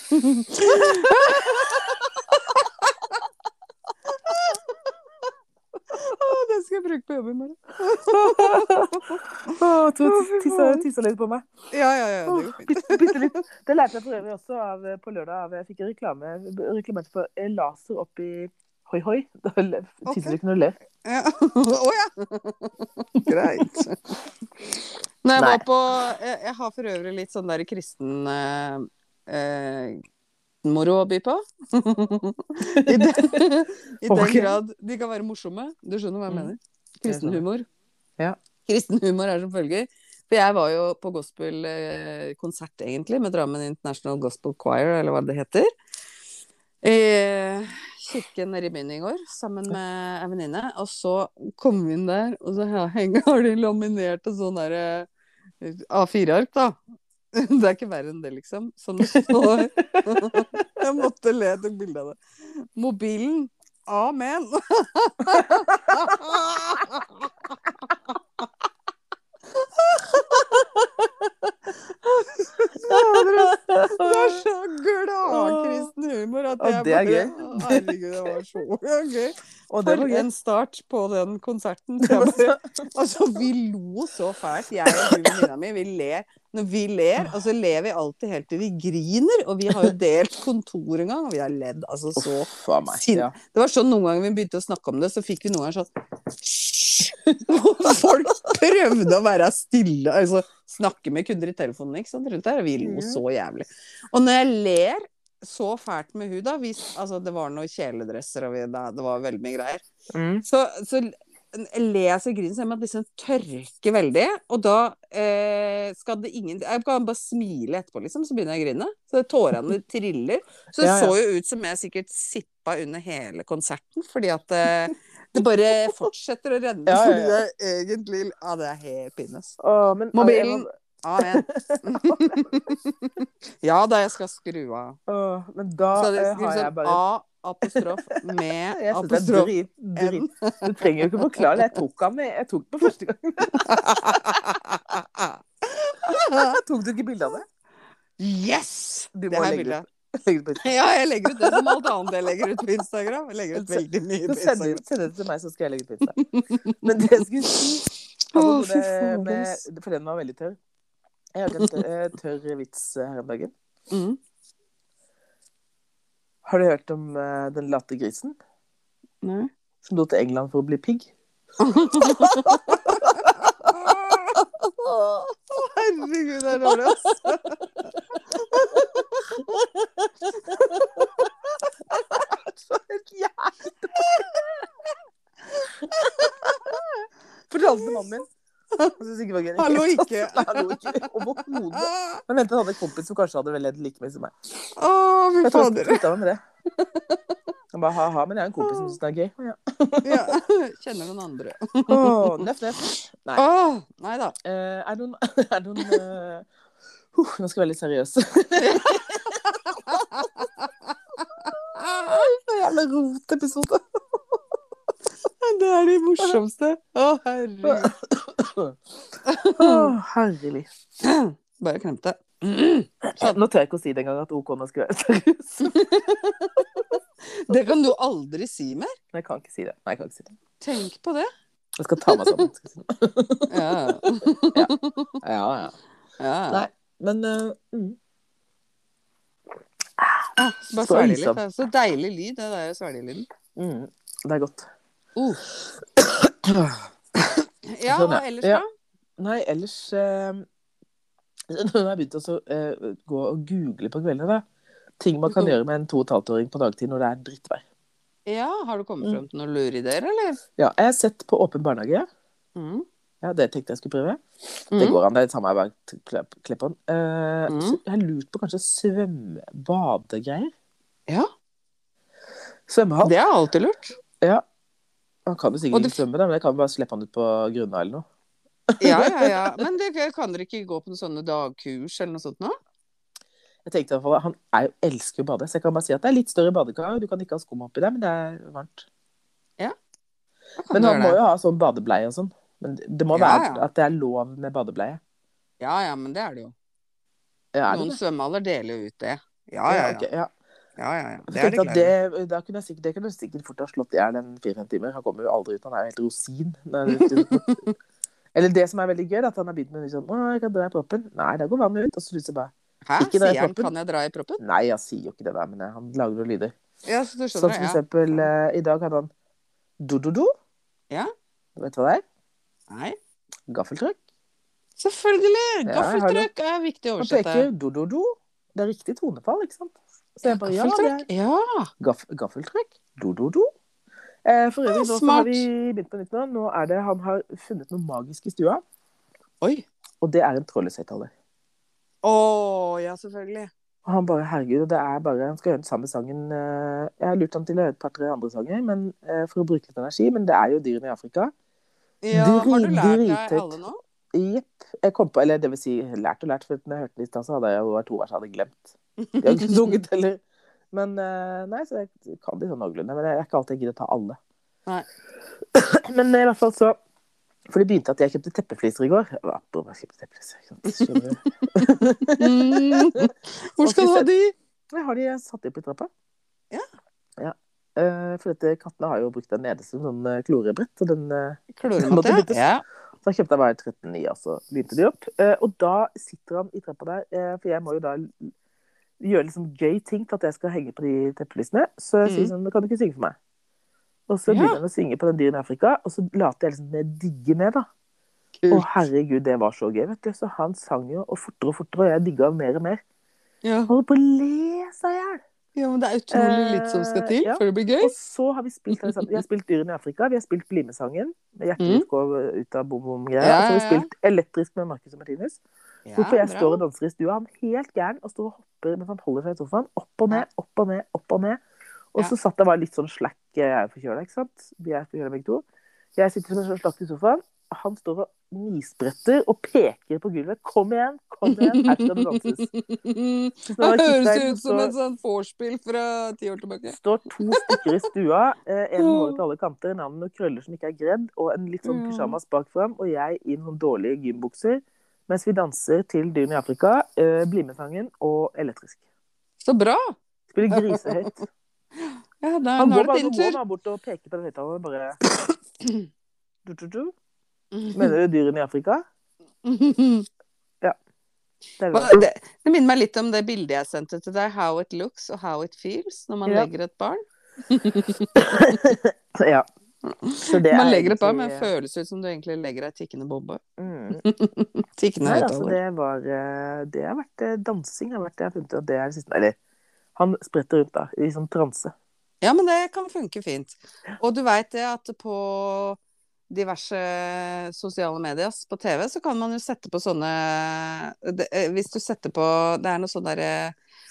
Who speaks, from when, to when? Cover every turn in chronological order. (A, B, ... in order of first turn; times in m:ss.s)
0:00.1-0:02.3 A
0:00.5-0:02.6 B
0:04.3-0:04.6 B
0:05.9-0:10.8 A
0:07.9-0:11.5 B
0:11.7-0:13.3 A
0:12.3-0:20.8 B
0:20.1-0:20.4 A
0:21.0-0:24.0 A
0:23.2-0:23.8 B
0:25.2-0:30.0 A
0:25.4-0:25.6 B
0:30.6-0:37.7 A
0:32.7-0:33.5 B
0:34.1-0:34.6 B
0:36.3-0:36.5 B
0:37.1-0:37.4 B
0:38.7-0:45.7 A
0:46.8-0:55.1 A
0:55.6-0:56.8 A
0:57.3-1:08.1 A
0:59.0-1:00.7 B
1:05.4-1:06.2 B
1:10.0-1:14.4 B
1:12.7-1:49.8 A
1:15.3-1:15.9 B
1:16.6-1:17.9 B
1:19.7-1:20.3 B
1:22.0-1:22.6 B
1:25.1-1:25.4 B
1:32.2-1:33.3 B
1:37.2-1:38.5 B
1:42.8-1:43.2 B
1:50.1-1:50.4 B
1:50.4-2:09.6 A
2:00.8-2:01.2 B
2:06.9-2:07.4 B
2:09.6-2:12.6 B
2:10.1-2:15.0 A
2:15.1-2:17.0 B
2:16.0-2:21.6 A
2:17.6-2:25.4 B
2:23.5-2:24.5 A
2:25.8-2:26.6 A
2:26.0-2:27.4 B
2:28.2-2:29.8 A
2:29.1-2:30.7 B
2:30.6-2:34.8 A
2:31.3-2:31.8 B
2:33.5-2:36.2 B
2:36.2-2:37.6 A
2:36.8-2:40.6 B
2:38.3-2:39.6 A
2:41.4-2:43.5 B
2:41.5-2:41.8 A
2:43.9-2:44.2 A
2:46.4-2:48.4 B
2:49.2-2:49.5 A
2:49.8-2:51.1 B
2:51.6-2:57.6 A
2:51.9-2:53.9 B
2:58.1-2:59.6 A
2:58.2-3:01.3 B
3:00.4-3:01.3 A
3:01.9-3:04.7 B
3:04.0-3:04.2 A
3:05.8-3:06.8 B
3:05.9-3:06.8 A
3:07.5-3:08.3 B
3:09.0-3:14.5 B
3:09.6-3:12.2 A
3:14.8-3:16.0 A
3:15.4-3:16.9 B
3:17.7-3:20.4 B
3:18.6-3:18.9 A
3:20.0-3:22.4 A
3:21.9-3:23.4 B
3:23.4-3:24.4 A
3:24.4-3:26.5 B
3:27.2-3:30.0 B
3:28.7-3:32.2 A
3:31.8-3:33.8 B
3:35.4-3:37.9 A
3:37.6-3:38.8 B
3:39.2-3:39.9 A
3:39.6-3:40.7 B
3:41.0-3:43.4 A
3:43.0-3:46.9 B
3:45.6-3:46.0 A
3:47.2-3:49.0 A
3:49.1-3:50.4 B
3:50.6-3:51.3 A
3:51.8-3:54.0 B
3:52.0-3:52.4 A
3:53.5-3:55.2 A
3:54.5-3:55.8 B
3:56.2-3:56.7 A
3:56.5-3:58.0 B
4:00.0-4:01.4 B
4:00.4-4:03.3 A
4:03.6-4:04.7 B
4:05.2-4:05.4 A
4:06.0-4:08.6 B
4:07.7-4:08.6 A
4:09.2-4:10.4 B
4:11.5-4:14.4 B
4:15.0-4:17.6 B
4:15.3-4:15.6 A
4:18.3-4:20.4 A
4:20.6-4:22.1 B
4:22.6-4:22.8 A
4:23.2-4:30.5 B
4:24.7-4:25.0 A
4:27.5-4:27.8 A
4:32.7-4:33.1 B
4:33.0-4:34.0 A
4:35.3-4:38.0 B
4:35.7-4:36.0 A
4:38.7-4:39.6 B
4:38.8-4:42.6 A
4:43.7-4:48.9 B
4:50.6-4:51.2 A
4:50.7-4:55.0 B
4:53.1-4:53.7 A
4:55.6-4:56.5 A
4:57.5-4:58.0 B
4:57.7-5:00.1 A
4:59.7-5:00.3 B
5:00.8-5:01.9 A
5:01.3-5:07.5 B
5:06.9-5:07.7 A
5:08.4-5:13.7 B
5:12.9-5:14.4 A
5:14.4-5:16.6 B
5:16.8-5:18.3 A
5:17.4-5:19.1 B
5:19.8-5:20.3 B
5:21.6-5:22.0 B
5:22.7-5:23.0 A
5:23.5-5:24.0 B
5:24.8-5:27.5 A
5:25.7-5:26.3 B
5:27.0-5:31.1 B
5:30.3-5:31.7 A
5:31.8-5:33.5 B
5:34.2-5:38.6 B
5:34.7-5:35.5 A
5:40.0-5:41.1 B
5:42.0-5:43.5 A
5:43.8-5:51.3 B
5:52.0-5:53.8 A
5:52.1-5:53.6 B
5:54.1-6:00.2 B
5:59.1-5:59.8 A
6:00.7-6:04.2 B
6:05.5-6:06.8 B
6:07.5-6:13.1 B
6:12.2-6:14.4 A
6:13.6-6:14.1 B
6:14.7-6:15.9 B
6:17.2-6:22.4 B
6:21.6-6:22.6 A
6:23.0-6:28.3 B
6:29.0-6:33.2 B
6:32.0-6:32.3 A
6:34.1-6:37.7 B
6:34.3-6:34.6 A
6:38.4-6:38.7 A
6:38.5-6:42.8 B
6:43.4-6:43.7 A
6:43.7-6:45.2 B
6:45.6-6:47.9 A
6:46.1-6:55.4 B
6:48.8-6:49.2 A
6:51.6-6:51.8 A
6:53.2-6:53.9 A
6:55.9-6:56.6 A
6:56.0-7:01.4 B
7:01.9-7:05.4 B
7:06.0-7:12.5 B
7:11.3-7:16.8 A
7:13.5-7:14.7 B
7:16.7-7:28.8 B
7:17.3-7:17.6 A
7:18.8-7:19.2 A
7:21.6-7:22.2 A
7:29.4-7:30.0 A
7:30.3-7:31.3 B
7:30.5-7:30.9 A
7:31.8-7:33.4 A
7:32.6-7:35.0 B
7:36.4-7:36.9 B
7:37.5-7:37.9 A
7:37.7-7:38.8 B
7:39.4-7:40.1 A
7:41.6-7:42.0 B
7:41.7-7:48.2 A
7:48.2-7:49.5 B
7:49.8-7:53.4 A
7:50.2-7:51.5 B
7:53.6-7:54.0 B
7:54.0-7:55.6 A
7:55.0-7:59.4 B
8:00.0-8:01.7 B
8:02.2-8:05.8 A
8:06.3-8:13.6 A